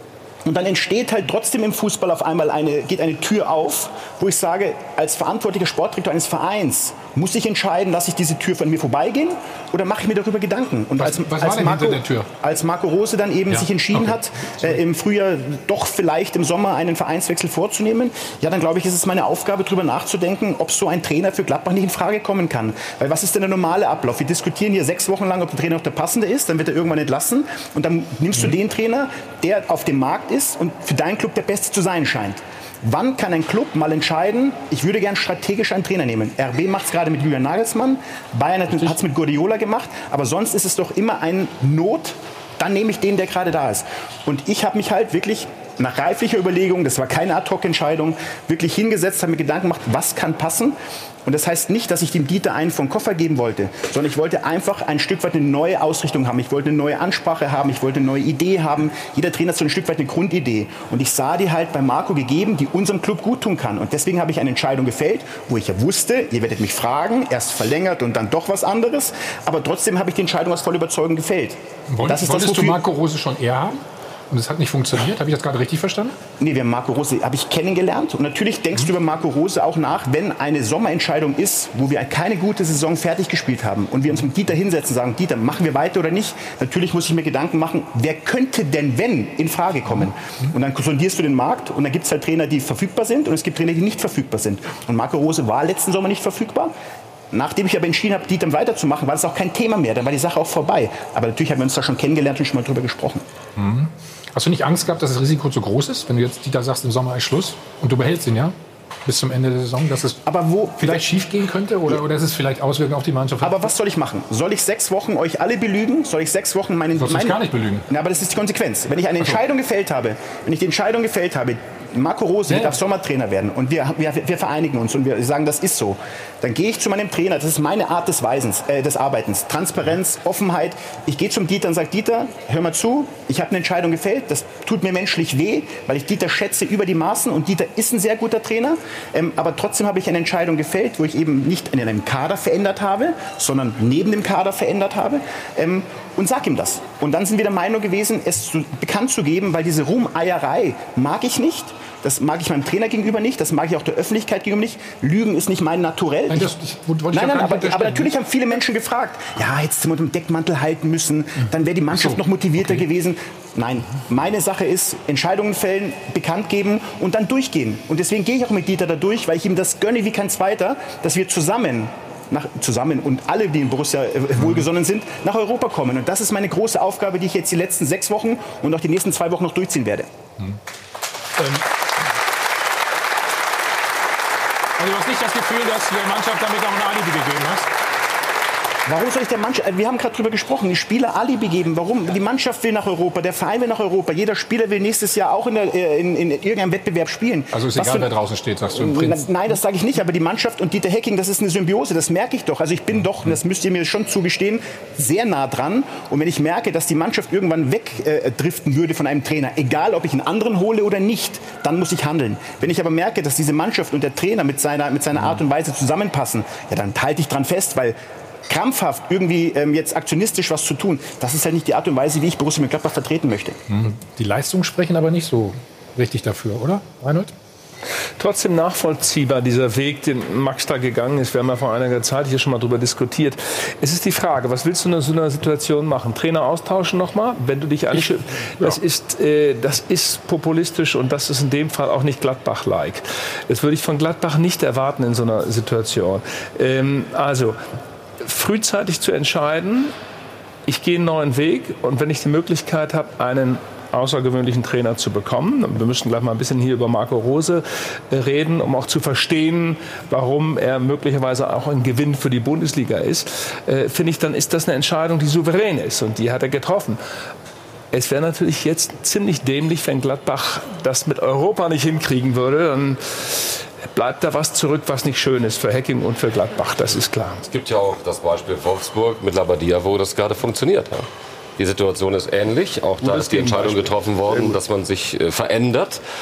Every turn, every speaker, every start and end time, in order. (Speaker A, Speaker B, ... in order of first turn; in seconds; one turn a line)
Speaker A: 0.4-72.8
Speaker B: 11.0-12.3
Speaker B: 13.5-14.8
Speaker B: 38.7-39.0
Speaker B: 71.9-76.2
Speaker A: 76.4-96.7
Speaker B: 89.9-90.5
Speaker A: 97.3-103.2
Speaker B: 103.6-110.2
Speaker A: 110.2-111.1
Speaker B: 110.8-113.7
Speaker A: 113.4-117.4
Speaker B: 117.0-117.9
Speaker A: 117.9-156.5
Speaker B: 122.5-122.8
Speaker B: 156.3-158.1
Speaker A: 157.1-180.1
Speaker B: 161.9-162.9
Speaker B: 174.4-174.7
Speaker B: 181.4-181.6
Speaker B: 184.8-187.7
Speaker A: 188.9-198.1
Speaker B: 197.5-199.3
Speaker A: 198.7-223.6
Speaker B: 223.7-227.3
Speaker C: 228.2-247.6
Speaker B: 237.9-238.8
Speaker C: 248.2-249.9
Speaker C: 250.7-267.0
Speaker C: 267.9-277.5
Speaker D: 277.4-286.0
Speaker C: 283.0-284.6